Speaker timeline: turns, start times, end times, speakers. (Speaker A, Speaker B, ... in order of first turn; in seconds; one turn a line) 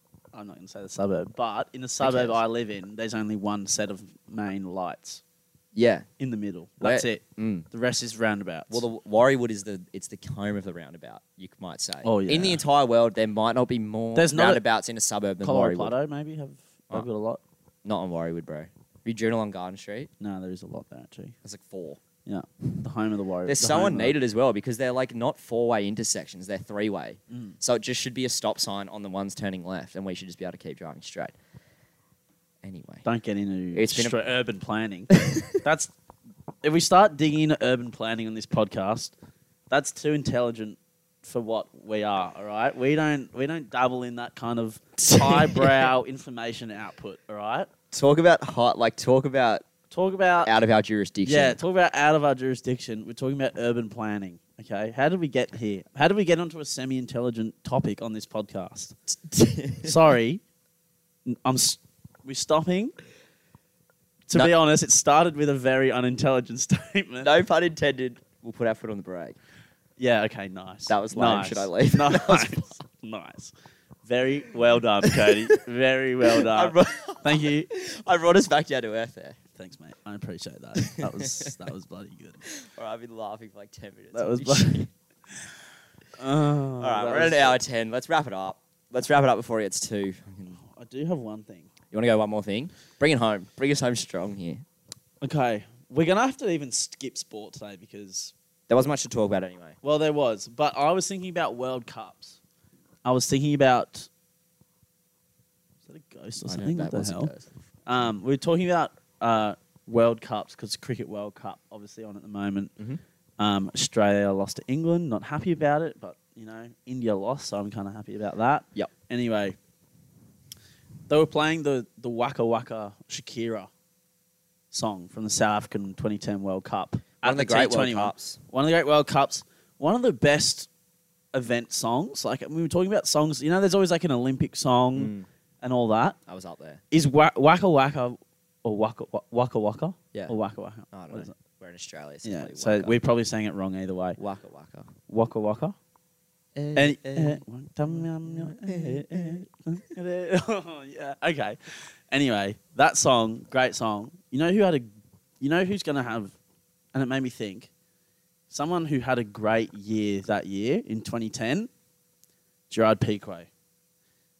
Speaker A: 0.3-5.2
Speaker B: 2.0-2.4
Speaker B: 5.7-6.1
Speaker A: 6.2-8.8
Speaker B: 6.8-7.7
Speaker B: 8.7-15.9
Speaker A: 12.0-12.6
Speaker A: 14.1-14.6
Speaker A: 15.4-17.4
Speaker B: 17.8-20.1
Speaker A: 20.2-21.3
Speaker B: 21.4-22.0
Speaker A: 22.2-24.1
Speaker B: 23.4-31.3
Speaker A: 27.3-27.6
Speaker B: 32.6-33.0
Speaker A: 33.0-35.9
Speaker B: 33.7-34.1
Speaker B: 35.2-35.4
Speaker A: 36.6-39.1
Speaker A: 39.7-47.7
Speaker B: 45.0-45.9
Speaker B: 47.9-49.6
Speaker A: 49.9-50.5
Speaker B: 50.4-51.6
Speaker A: 51.2-58.9
Speaker B: 59.1-60.0
Speaker A: 59.8-60.4
Speaker A: 61.2-63.0
Speaker A: 64.3-67.3
Speaker B: 67.2-69.4
Speaker A: 70.0-73.5
Speaker B: 70.9-72.6
Speaker A: 74.0-77.7
Speaker B: 75.0-75.4
Speaker B: 76.2-79.4
Speaker A: 79.5-82.5
Speaker B: 80.8-81.5
Speaker B: 82.5-84.9
Speaker A: 84.1-84.8
Speaker A: 86.2-87.6
Speaker B: 86.8-90.6
Speaker A: 90.6-91.7
Speaker B: 91.9-94.6
Speaker A: 95.2-98.3
Speaker B: 98.7-99.8
Speaker A: 99.8-102.4
Speaker A: 103.0-104.1
Speaker A: 105.8-107.3
Speaker B: 106.5-107.5
Speaker A: 107.8-112.7
Speaker A: 113.4-119.6
Speaker A: 121.1-123.7
Speaker A: 124.7-130.7
Speaker B: 127.2-128.4
Speaker A: 131.3-136.2
Speaker B: 134.9-135.3
Speaker B: 136.3-136.8
Speaker A: 136.9-141.3
Speaker B: 140.9-143.0
Speaker A: 142.2-144.2
Speaker B: 144.2-144.9
Speaker A: 145.1-145.8
Speaker B: 146.5-147.4
Speaker A: 146.7-154.9
Speaker B: 148.3-149.4
Speaker A: 155.4-156.3
Speaker A: 156.9-157.7
Speaker A: 158.5-161.7
Speaker A: 162.7-163.5